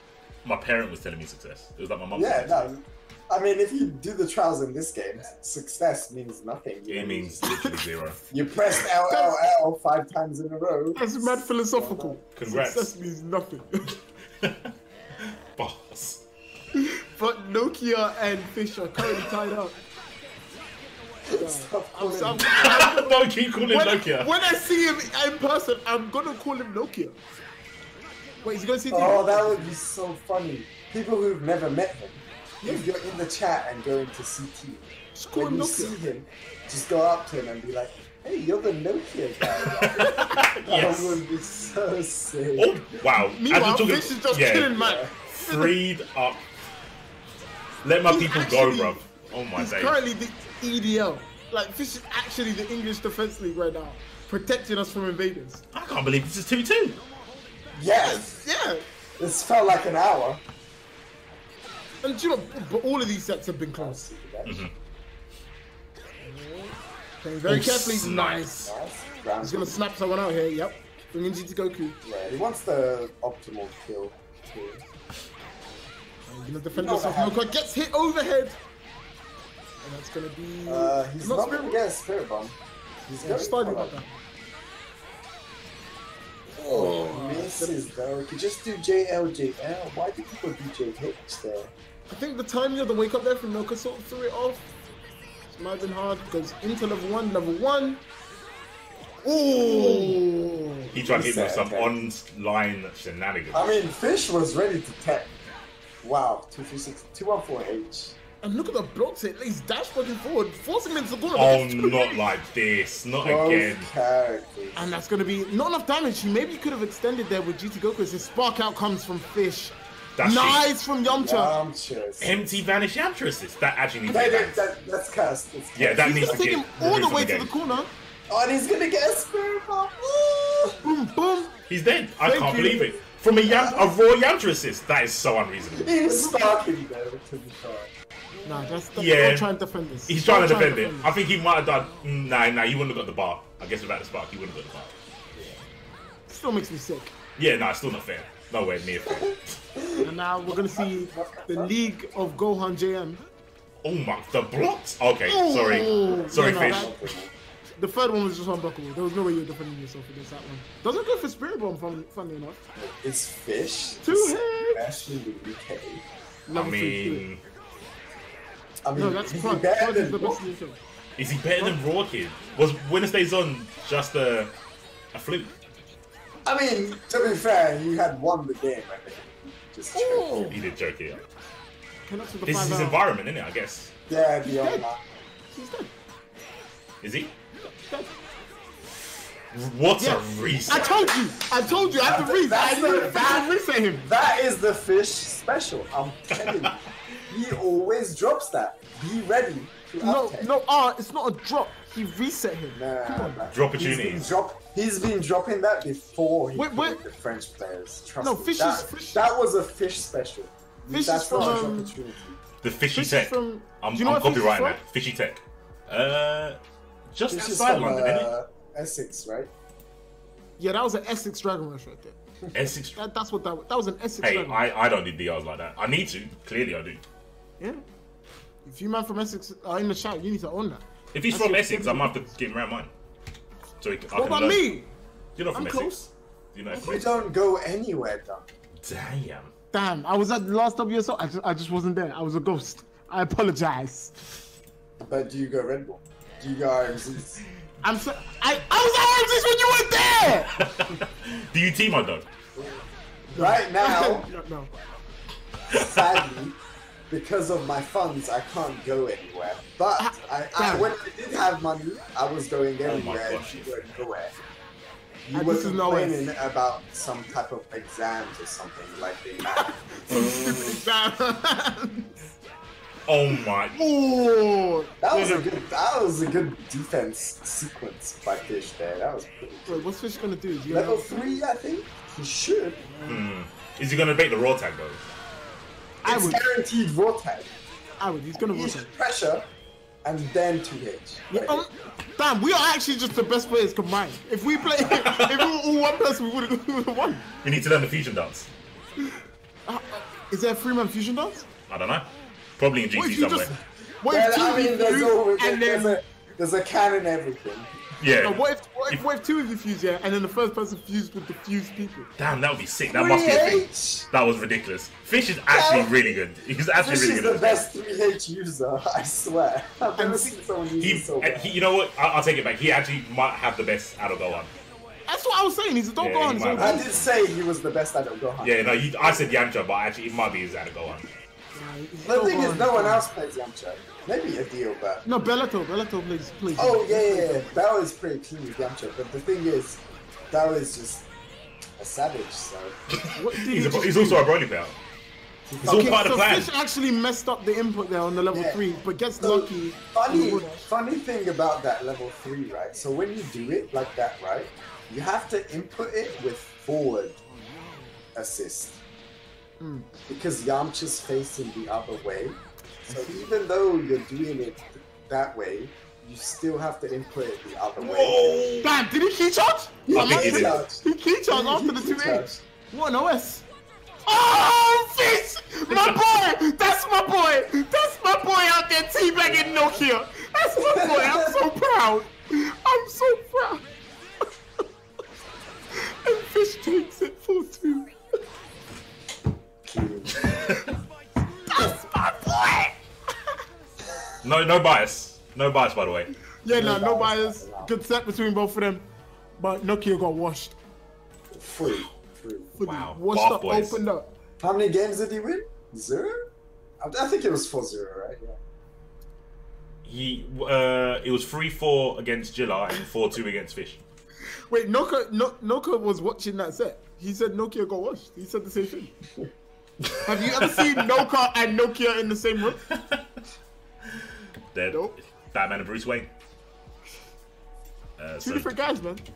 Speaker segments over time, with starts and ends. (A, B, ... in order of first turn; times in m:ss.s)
0:00.4-0:02.7 A
0:02.1-0:07.4 B
0:06.9-0:08.2 A
0:07.5-0:07.8 C
0:08.3-0:12.2 B
0:09.0-0:09.4 C
0:10.9-0:13.9 C
0:12.3-0:12.9 A
0:15.6-0:16.2 A
0:16.8-0:19.8 C
0:21.2-0:22.9 B
0:21.3-0:27.2 C
0:22.5-0:24.3 A
0:28.4-0:29.8 C
0:28.9-0:42.8 B
0:32.6-0:32.9 C
0:35.1-0:35.9 C
0:39.4-0:41.2 A
0:40.0-0:40.4 C
0:42.6-0:46.4 A
0:43.2-0:45.8 C
0:44.8-0:45.1 B
0:47.8-0:50.0 A
0:48.0-0:49.0 C
0:49.6-0:55.6 C
0:55.7-0:57.0 A
0:57.7-0:58.3 B
0:57.9-0:58.8 C
0:59.2-1:00.4 B
1:02.0-1:04.0 C
1:03.8-1:04.7 B
1:04.4-1:04.7 A
1:06.2-1:08.7 C
1:07.4-1:08.7 A
1:08.6-1:09.8 B
1:09.4-1:12.0 C
1:12.0-1:14.8 B
1:16.3-1:18.6 C
1:16.7-1:17.5 B
1:19.8-1:21.8 C
1:20.6-1:23.9 B
1:23.2-1:24.2 C
1:26.6-1:27.8 C
1:26.6-1:31.7 B
1:32.1-1:34.7 C
1:35.5-1:38.0 C
1:39.2-1:40.9 C
1:39.6-1:40.2 B
1:40.9-1:42.0 B
1:40.9-1:43.7 A
1:43.5-1:45.3 B
1:46.0-1:48.2 B
1:48.4-1:52.2 C
1:51.3-1:53.9 A
1:53.2-1:54.8 B
1:54.7-2:01.6 C
2:00.2-2:00.6 A
2:01.0-2:02.6 B
2:02.2-2:04.6 A
2:04.1-2:06.4 B
2:05.7-2:07.8 A
2:06.0-2:07.9 C
2:08.3-2:10.8 B
2:10.8-2:11.6 C
2:11.7-2:15.9 A
2:12.2-2:13.0 C
2:13.4-2:13.9 B
2:15.7-2:17.9 B
2:16.0-2:16.5 C
2:18.4-2:21.1 C
2:18.9-2:19.5 A
2:20.1-2:24.9 A
2:25.3-2:25.6 B
2:26.3-2:27.1 C
2:27.4-2:29.6 A
2:29.1-2:31.7 B
2:30.0-2:33.2 C
2:33.8-2:37.0 A
2:35.2-2:37.0 C
2:36.1-2:37.3 B
2:37.8-2:42.6 C
2:42.8-2:46.0 B
2:44.0-2:44.8 C
2:46.5-2:47.2 C
2:46.5-2:47.4 A
2:48.8-2:50.5 B
2:48.9-2:50.8 C
2:51.2-2:54.5 A
2:55.1-2:55.5 A
2:56.4-3:00.6 B
2:59.9-3:00.6 C
3:00.5-3:01.2 A
3:02.0-3:03.0 C
3:02.4-3:03.9 A
3:04.1-3:05.0 B
3:04.4-3:04.9 C
3:05.5-3:05.9 C
3:07.0-3:07.3 A
3:07.7-3:08.1 C
3:09.5-3:11.1 A
3:10.0-3:14.1 C
3:10.7-3:11.1 B
3:12.0-3:16.8 B
3:16.4-3:16.7 A
3:17.3-3:20.5 B
3:20.0-3:23.4 C
3:22.7-3:32.4 B
3:23.5-3:24.3 A
3:26.5-3:27.0 C
3:28.2-3:29.2 C
3:30.9-3:32.0 C
3:31.4-3:31.6 A
3:32.6-3:36.6 A
3:32.9-3:34.8 C
3:37.1-3:38.3 A
3:37.3-3:39.5 B
3:40.6-3:42.2 C
3:42.5-3:43.0 A
3:42.9-3:44.6 C
3:44.2-3:47.0 A
3:48.6-3:52.3 C
3:51.1-3:52.9 A
3:53.8-3:54.7 A
3:54.1-3:54.9 C
3:55.4-3:57.1 A
3:55.5-3:56.0 C
3:56.7-3:58.5 B
3:58.8-3:59.5 A
3:59.7-4:04.2 C
4:05.0-4:07.4 B
4:07.8-4:10.7 C
4:10.5-4:12.2 A
4:12.6-4:14.3 B
4:13.3-4:14.7 C
4:15.7-4:16.6 B
4:15.7-4:16.1 A
4:17.1-4:24.3 B
4:20.0-4:20.9 C
4:22.8-4:23.8 A
4:25.2-4:30.4 B
4:25.3-4:26.3 C
4:29.5-4:32.3 C
4:33.1-4:33.8 A
4:33.7-4:35.6 C
4:35.0-4:39.9 B
4:39.6-4:41.4 C
4:40.7-4:42.8 B
4:42.8-4:43.2 C
4:43.0-4:45.0 A
4:46.0-4:46.4 C
4:46.0-4:47.5 B
4:48.0-4:48.9 C
4:48.3-4:49.4 B
4:50.0-4:51.6 B
4:51.3-4:57.2 C
4:54.9-4:55.5 A
4:57.4-4:58.5 A
4:59.6-5:01.5 C
5:01.7-5:03.5 A
5:02.9-5:06.0 C
5:04.1-5:07.7 B
5:08.0-5:08.4 A
5:08.1-5:12.1 C
5:12.2-5:17.7 A
5:12.9-5:14.1 B
5:15.5-5:16.2 B
5:16.8-5:21.6 B
5:20.0-5:20.4 C
5:20.8-5:24.5 A
5:25.1-5:26.9 C
5:26.0-5:27.0 A
5:26.6-5:29.4 B
5:28.4-5:31.1 A
5:31.5-5:33.0 C
5:32.0-5:35.0 B
5:35.0-5:37.6 C
5:36.6-5:41.1 B
5:41.8-5:42.8 B
5:42.9-5:44.8 A
5:43.2-5:44.2 C
5:45.5-5:46.2 B
5:45.6-5:46.5 A
5:45.6-5:50.7 C
5:48.3-5:48.6 B
5:49.2-5:57.2 B
5:58.1-5:58.8 B
5:59.6-5:59.9 C
6:00.1-6:02.4 B
6:02.9-6:03.3 C
6:02.9-6:08.6 B
6:07.8-6:08.7 A
6:08.6-6:13.4 C
6:09.8-6:12.4 B
6:09.9-6:10.6 A
6:14.1-6:23.6 C
6:19.2-6:19.8 B
6:20.6-6:21.4 B
6:25.7-6:27.9 C
6:29.6-6:30.2 B
6:30.3-6:30.7 C
6:31.5-6:32.8 C
6:34.2-6:36.1 A
6:36.4-6:38.8 C
6:36.5-6:37.7 B
6:39.4-6:40.6 C
6:41.3-6:42.5 B
6:42.6-6:44.1 C
6:42.6-6:43.8 A
6:44.4-6:46.2 B
6:46.8-6:48.4 B
6:49.8-6:53.8 A
6:54.5-6:58.9 C
7:00.0-7:02.6 C
7:00.3-7:00.7 A
7:02.7-7:03.0 A
7:04.5-7:06.1 A
7:08.0-7:08.5 A
7:08.2-7:09.0 C